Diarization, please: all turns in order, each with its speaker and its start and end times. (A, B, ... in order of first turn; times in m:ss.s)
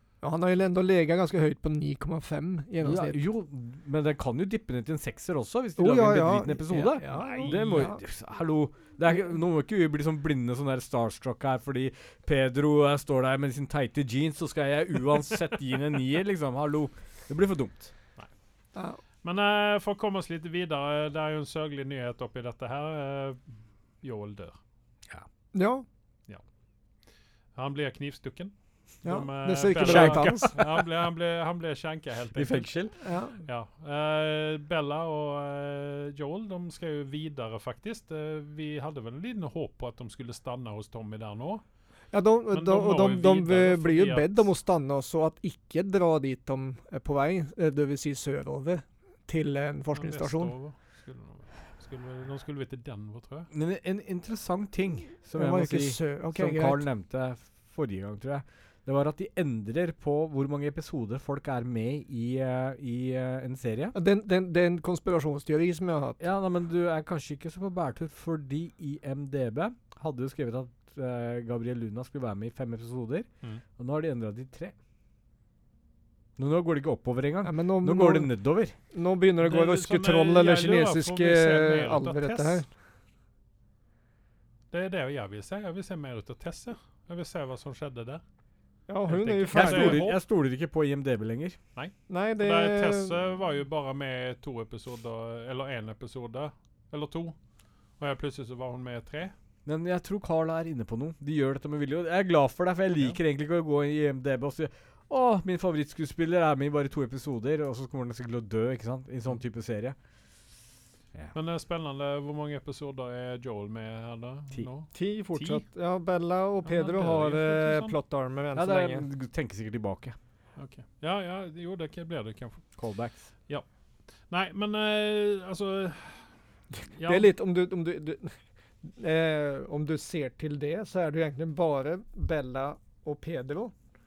0:00.2-0:03.2 A
0:02.8-0:17.9 B
0:05.8-0:08.0 A
0:07.2-0:07.8 C
0:19.2-0:23.5 C
0:24.0-0:24.6 C
0:25.5-0:25.8 A
0:27.6-0:32.8 C
0:29.0-0:30.5 A
0:29.8-0:30.8 B
0:32.3-0:33.0 B
0:33.0-0:33.4 A
0:33.4-0:41.6 C
0:42.1-0:50.5 A
0:42.5-0:44.5 C
0:49.9-0:53.5 C
0:53.5-1:04.0 B
0:55.3-0:56.8 A
1:03.9-1:06.2 A
1:06.2-1:14.8 B
1:16.4-1:18.8 B
1:17.4-1:18.3 A
1:18.9-1:22.7 A
1:19.4-1:22.6 C
1:24.7-1:28.2 C
1:28.9-1:30.0 A
1:29.1-1:30.2 C
1:29.5-1:31.6 B
1:31.8-1:37.4 C
1:32.1-1:33.2 A
1:38.0-1:39.3 C
1:39.6-1:50.0 B
1:51.3-1:55.6 C
1:54.9-1:59.0 A
1:56.6-1:58.0 C
1:58.6-2:00.2 B
2:00.6-2:02.7 C
2:02.8-2:03.3 B
2:04.3-2:06.3 C
2:06.8-2:07.3 C
2:07.0-2:13.7 A